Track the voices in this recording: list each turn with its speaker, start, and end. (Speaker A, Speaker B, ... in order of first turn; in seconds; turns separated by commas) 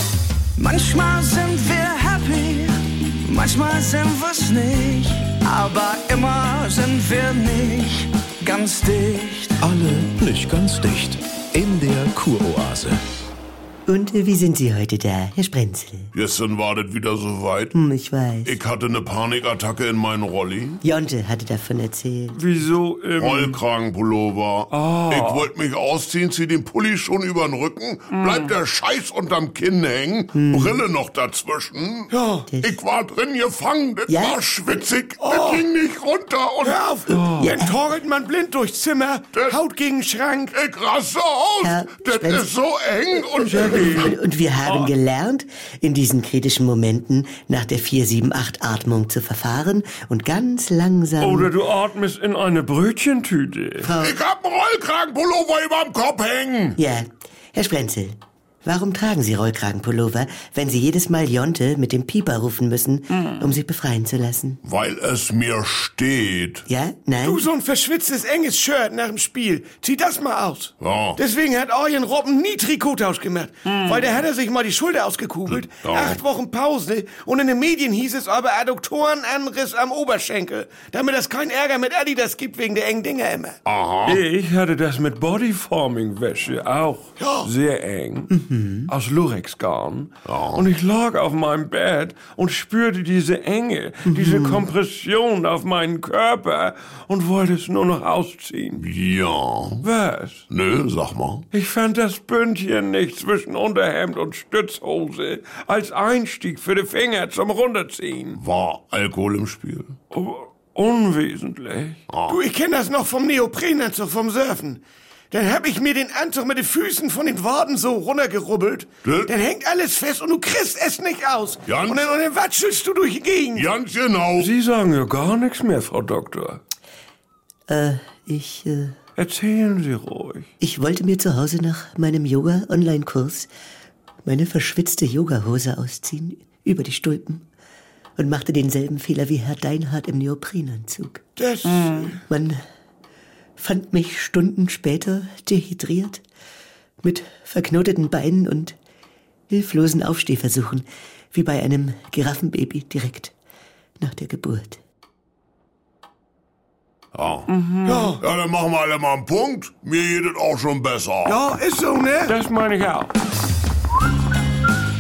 Speaker A: 0.6-9.6, Speaker B: 9.6-13.0, Speaker C: 13.9-16.1, Speaker D: 16.1-17.8, Speaker C: 17.7-18.6, Speaker D: 18.4-20.8, Speaker C: 20.8-22.4, Speaker E: 22.3-23.6, Speaker D: 23.2-36.8, Speaker E: 24.7-25.5, Speaker E: 28.1-28.6, Speaker C: 30.3-30.8, Speaker F: 32.1-32.5, Speaker C: 32.5-32.8, Speaker C: 34.1-34.8, Speaker F: 35.2-35.6, Speaker F: 36.6-40.5, Speaker E: 37.1-37.6, Speaker C: 37.3-37.8, Speaker D: 39.3-39.6, Speaker D: 40.5-44.1, Speaker C: 41.6-42.5, Speaker C: 43.4-51.5, Speaker E: 43.6-44.9, Speaker E: 51.2-53.9, Speaker C: 53.8-54.2, Speaker D: 54.0-56.8, Speaker C: 56.8-64.6, Speaker D: 64.6-66.7, Speaker C: 66.7-67.5, Speaker F: 67.2-83.6, Speaker D: 70.8-71.2, Speaker E: 73.7-74.2, Speaker D: 75.5-76.2, Speaker D: 83.7-84.2, Speaker E: 84.1-88.3, Speaker F: 87.2-87.5, Speaker C: 88.3-88.9, Speaker E: 88.9-98.8, Speaker D: 90.3-90.7, Speaker C: 94.0-94.7, Speaker D: 98.8-99.9, Speaker E: 99.8-100.4, Speaker D: 100.5-101.5, Speaker E: 101.5-108.4, Speaker D: 108.4-110.0, Speaker E: 110.1-112.0, Speaker D: 112.1-112.4, Speaker F: 112.3-114.8, Speaker F: 115.3-123.7, Speaker D: 119.0-119.3, Speaker D: 121.7-122.1, Speaker D: 123.5-124.5, Speaker E: 124.4-126.6, Speaker C: 127.7-128.9, Speaker E: 129.2-130.5, Speaker C: 130.6-133.5, Speaker C: 134.2-137.4, Speaker C: 138.2-141.2, Speaker F: 141.4-142.2, Speaker E: 141.7-142.1, Speaker C: 142.2-142.6, Speaker C: 143.6-146.2, Speaker C: 147.0-148.8, Speaker C: 149.5-153.3, Speaker C: 154.0-154.8, Speaker D: 157.1-157.5, Speaker E: 157.5-158.1, Speaker F: 157.8-158.2, Speaker D: 158.2-161.4, Speaker F: 161.2-162.3, Speaker E: 162.2-163.1